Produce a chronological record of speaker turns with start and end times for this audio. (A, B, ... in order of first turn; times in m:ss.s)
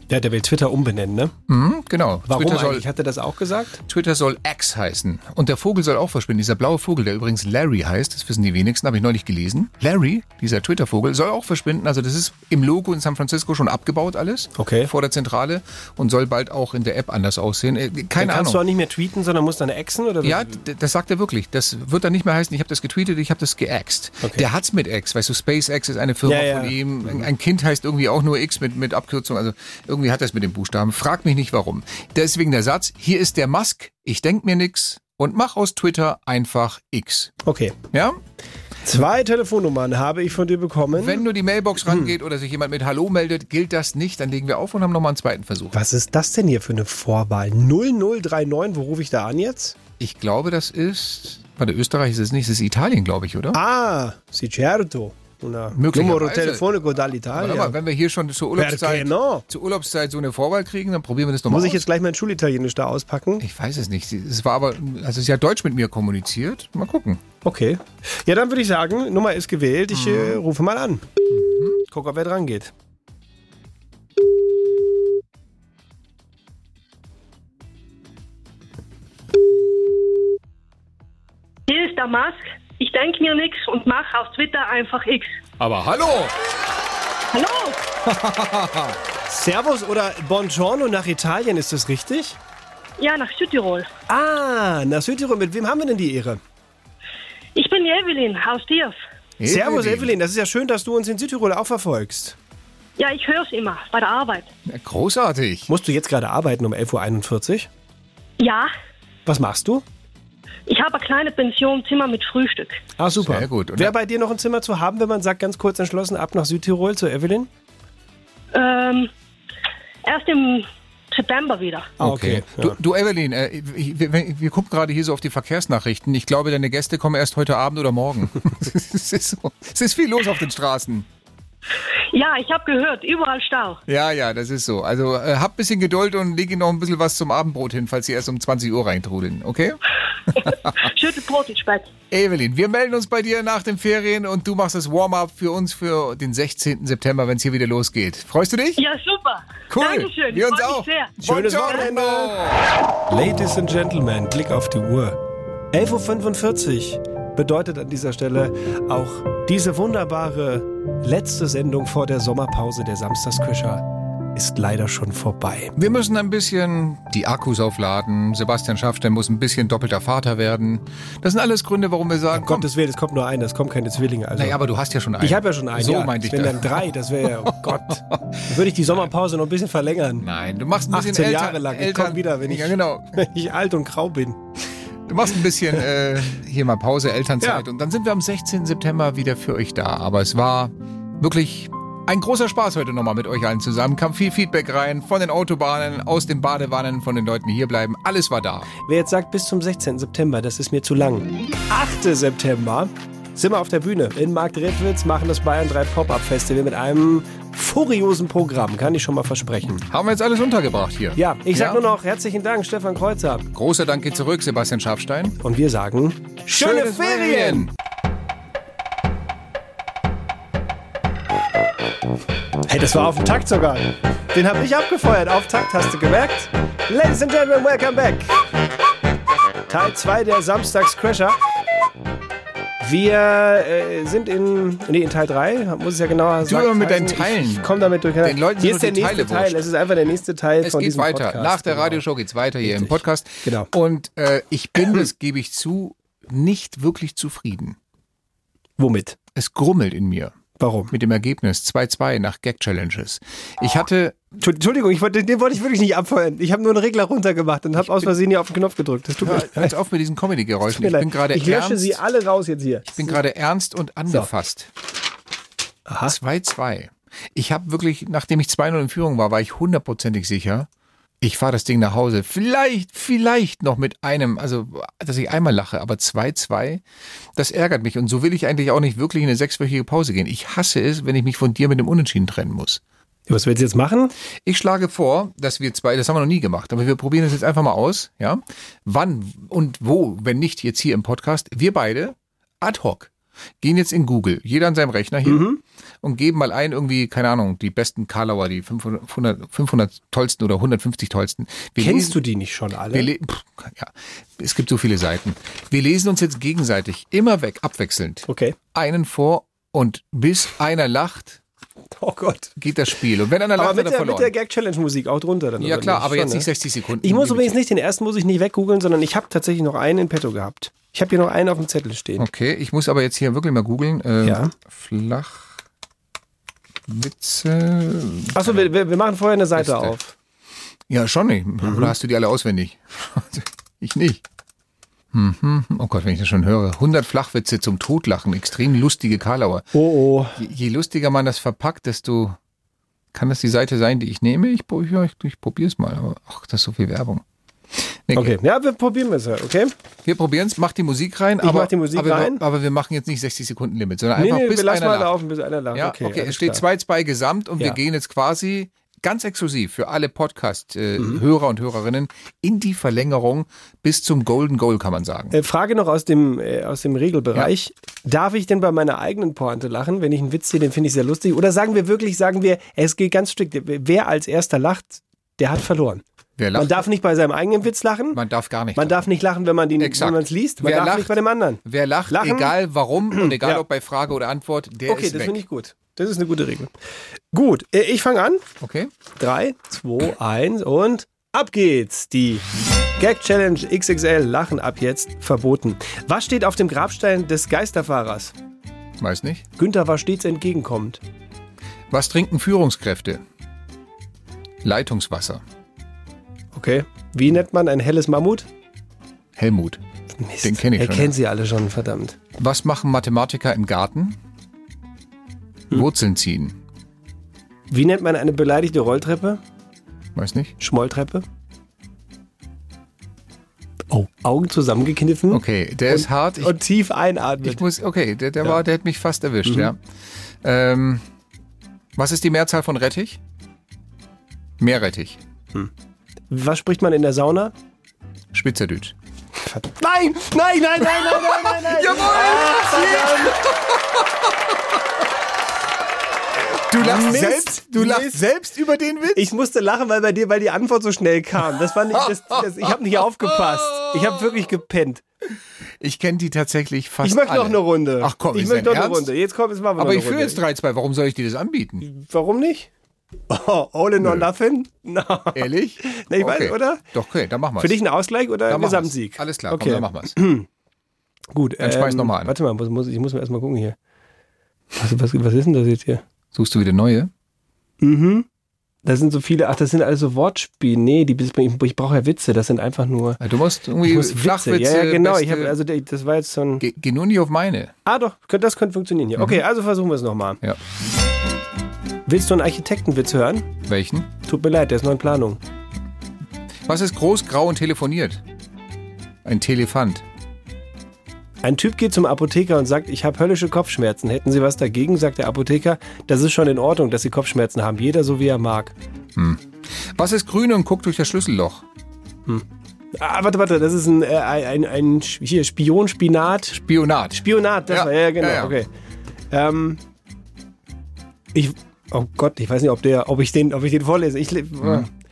0:00.1-0:01.3 A
0:01.5-0:02.9 B
0:02.3-0:03.8 A
0:03.9-0:18.6 B
0:14.6-0:14.9 A
0:18.2-0:20.6 A
0:20.2-0:37.3 B
0:24.2-0:24.5 A
0:26.2-0:27.2 A
0:37.4-0:37.8 A
0:37.9-0:38.2 B
0:38.8-0:41.2 A
0:40.9-0:45.8 B
0:45.7-0:49.8 A
0:50.0-0:53.6 B
0:53.5-0:57.8 A
0:55.7-0:56.7 B
0:57.3-1:01.8 B
0:58.6-0:59.4 A
1:01.5-1:03.4 A
1:03.4-1:07.2 B
1:07.4-1:11.0 A
1:09.9-1:10.4 B
1:11.3-1:11.8 B
1:11.9-1:12.7 A
1:21.7-1:25.4 C
1:25.6-1:26.4 B
1:27.3-1:27.8 C
1:28.0-1:29.0 B
1:29.3-1:32.4 A
1:33.0-1:33.9 C
1:34.1-1:36.4 A
1:37.6-1:39.0 C
1:39.4-1:40.1 B
1:39.5-1:42.4 A
1:43.0-1:44.5 C
1:44.7-1:45.7 B
1:45.7-1:47.7 A
1:48.4-1:48.7 C
1:49.3-1:49.8 A
1:50.7-1:52.8 C
1:53.0-1:57.5 A
1:53.2-1:54.0 B
1:58.5-1:59.1 C
2:00.0-2:01.9 C
2:02.0-2:02.8 A
2:02.0-2:11.1 B
2:12.1-2:13.8 C
2:13.9-2:19.8 B
2:20.4-2:20.7 B
2:20.4-2:21.9 C
2:22.1-2:28.8 B
2:28.8-2:31.1 C
2:29.7-2:32.7 B
2:31.2-2:32.4 A
2:33.1-2:35.2 A
2:35.7-2:45.8 A
2:45.8-2:52.7 B
2:52.3-2:54.6 A
2:54.4-2:59.0 B
2:55.2-3:00.2 A
3:00.2-3:03.2 B
3:00.9-3:04.4 A
3:05.1-3:18.7 B
3:18.9-3:29.9 A
3:29.9-3:31.8 B
3:31.2-3:33.5 A
3:33.5-3:35.4 B
3:35.4-3:37.7 A
3:36.5-3:37.7 B
3:42.7-3:48.3 A
3:49.7-3:51.4 A
3:52.8-4:02.0 A
3:56.4-3:59.7 B
4:00.6-4:07.8 B
4:02.6-4:03.7 A
4:08.8-4:09.2 A
4:09.4-4:10.4 B
4:10.6-4:10.9 A
4:10.9-4:14.2 B
4:14.4-4:19.7 A
4:17.8-4:18.1 B
4:19.2-4:22.0 B
4:20.7-4:23.2 A
4:22.9-4:24.7 B
4:25.9-4:26.2 A
4:26.1-4:30.7 B
4:31.2-4:36.8 B
4:37.4-4:42.8 B
4:43.3-4:44.1 A
4:44.4-4:55.5 B
4:55.2-4:55.6 A
4:56.0-5:02.2 B
5:01.8-5:03.1 A
5:02.9-5:11.4 B
5:08.3-5:08.6 A
5:12.0-5:12.6 A
5:12.6-5:14.3 B
5:13.6-5:16.5 A
5:15.6-5:17.6 B
5:17.0-5:22.3 A
5:22.2-5:25.5 B
5:24.2-5:24.5 A
5:26.9-5:28.7 B
5:28.4-5:30.1 A
5:29.6-5:30.0 B
5:30.9-5:34.2 B
5:31.6-5:31.9 A
5:35.1-5:39.7 B
5:39.7-5:40.4 A
5:40.4-5:42.4 B
5:43.1-5:47.2 B
5:47.8-5:48.4 B
5:48.1-5:49.7 A
5:50.0-5:55.2 B
5:51.4-5:52.4 A
5:54.2-5:56.6 A
5:55.7-6:05.4 B
6:05.3-6:16.0 A
6:16.4-6:16.9 B
6:16.6-6:18.2 A
6:18.1-6:19.1 B
6:18.8-6:22.6 A
6:19.8-6:25.4 B
6:23.1-6:23.6 A
6:24.9-6:26.7 A
6:27.3-6:28.4 A
6:28.6-6:28.9 B
6:29.2-6:32.4 A
6:33.0-6:38.3 A
6:39.0-6:39.5 B
6:39.6-6:41.0 A
6:41.9-6:43.2 B
6:44.6-6:45.4 B
6:46.5-6:48.5 A
6:49.4-6:49.8 B
6:50.2-6:52.2 A
6:50.4-6:51.1 B
6:52.4-6:54.2 B
6:55.7-6:56.6 B
6:57.7-6:59.4 A
7:00.2-7:00.6 B
7:00.6-7:01.2 A
7:03.9-7:07.6 A
7:05.3-7:06.6 B
7:07.4-7:09.8 B
7:09.4-7:09.7 A
7:10.4-7:11.0 B
7:12.0-7:13.2 B
7:14.6-7:15.2 B
7:16.3-7:17.5 A
7:18.3-7:19.0 B
7:19.4-7:23.4 A
7:20.9-7:24.3 B
7:26.4-7:29.3 B
7:26.8-7:28.2 A
7:29.2-7:35.0 A
7:31.9-7:34.2 B
7:35.8-7:39.1 B
7:37.0-7:40.4 A
7:39.8-7:41.8 B
7:41.8-7:42.7 A
7:43.3-7:46.8 A
7:44.0-7:44.3 B
7:45.3-7:47.8 B
7:47.6-7:50.5 A
7:48.5-7:50.2 B
7:51.3-7:53.8 A
7:51.6-7:52.3 B
7:54.8-7:56.0 A
7:56.3-7:57.1 B
7:57.8-7:58.3 A
7:58.8-8:03.2 A
8:03.2-8:05.6 B
8:03.8-8:06.6 A
8:06.6-8:07.7 B
8:07.8-8:10.4 A
8:12.1-8:13.5 A
8:13.7-8:14.1 B
8:14.2-8:15.4 A
8:16.7-8:18.2 B
8:19.2-8:20.0 B
8:21.4-8:28.7 A
8:29.2-8:31.6 B
8:33.0-8:36.6 A
8:36.5-8:38.6 B
8:37.1-8:38.7 A
8:39.3-8:39.8 A
8:41.3-8:44.9 A
8:44.6-8:44.9 B